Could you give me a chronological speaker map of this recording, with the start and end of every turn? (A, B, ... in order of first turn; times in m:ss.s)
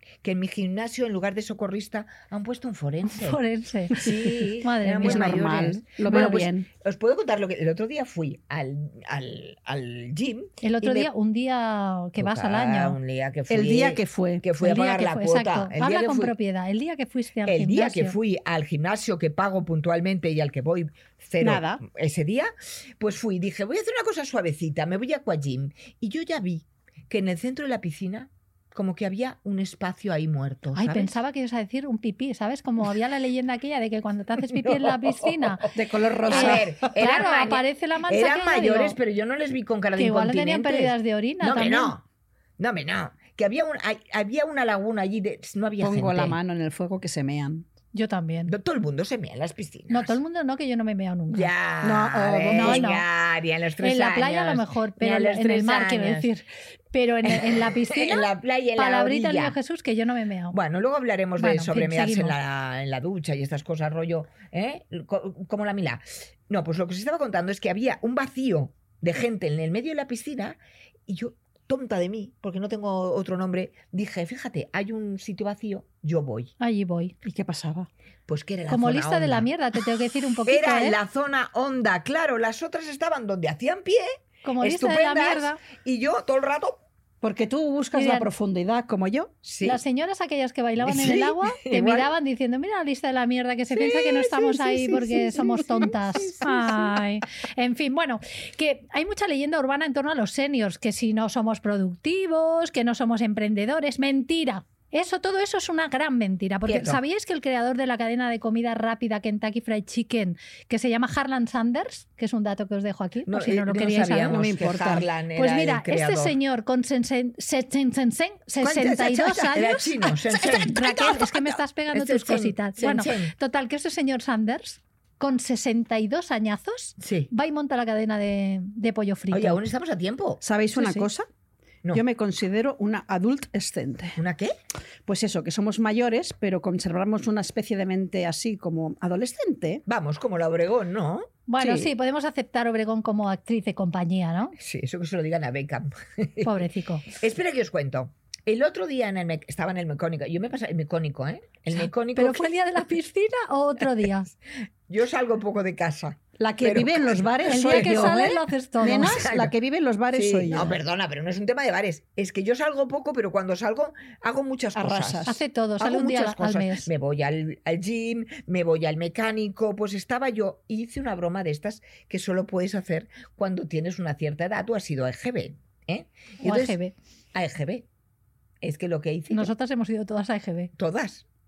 0:00.2-0:03.4 A
0:03.1-0:04.1 B
0:03.9-0:11.1 A
0:04.6-0:05.4 B
0:05.0-0:06.7 C
0:06.0-0:06.4 B
0:10.6-0:13.0 B
0:12.2-0:16.3 A
0:13.5-0:14.4 C
0:14.6-0:18.1 B
0:17.4-0:31.1 A
0:21.4-0:21.8 C
0:30.7-0:35.7 B
0:34.4-0:35.7 A
0:35.7-0:36.8 C
0:36.2-0:42.0 A
0:36.3-0:39.0 B
0:40.0-0:41.9 B
0:42.6-0:46.4 A
0:45.8-0:47.6 C
0:47.9-0:48.5 B
0:48.5-0:50.2 A
0:49.9-0:51.5 B
0:51.3-0:56.3 A
0:51.8-0:52.8 C
0:52.5-0:53.0 B
0:53.8-1:00.6 B
0:57.3-0:59.6 A
1:00.5-1:10.6 A
1:01.4-1:02.3 B
1:11.1-1:16.5 A
1:16.6-1:17.1 B
1:17.2-1:17.9 C
1:18.3-1:19.5 A
1:18.7-1:20.9 B
1:20.4-1:26.8 A
1:24.4-1:25.6 B
1:27.2-1:29.3 C
1:27.9-1:28.3 B
1:29.4-1:29.8 A
1:29.6-1:54.4 B
1:30.8-1:32.1 A
1:33.7-1:36.9 A
1:46.7-1:47.0 A
1:53.3-1:56.3 A
1:54.2-1:55.1 C
1:55.4-2:09.6 B
1:58.6-2:03.3 A
2:00.3-2:00.9 C
2:07.0-2:07.3 A
2:09.3-2:10.4 A
2:10.4-2:11.3 C
2:10.7-2:11.1 B
2:11.9-2:14.2 C
2:14.2-2:14.5 A
2:15.0-2:19.8 C
2:19.8-2:21.3 A
2:21.5-2:24.6 B
2:21.6-2:21.9 C
2:24.6-2:26.5 A
2:26.4-2:27.1 B
2:27.1-2:32.5 A
2:32.1-2:34.3 B
2:34.9-2:39.5 A
2:36.4-2:40.8 C
2:37.4-2:39.2 B
2:40.1-2:56.8 A
2:44.7-2:45.4 C
2:45.3-2:46.9 B
2:56.4-2:56.9 B
2:57.3-2:57.8 A
2:58.6-2:59.5 A
2:59.3-3:00.7 B
3:00.8-3:01.2 A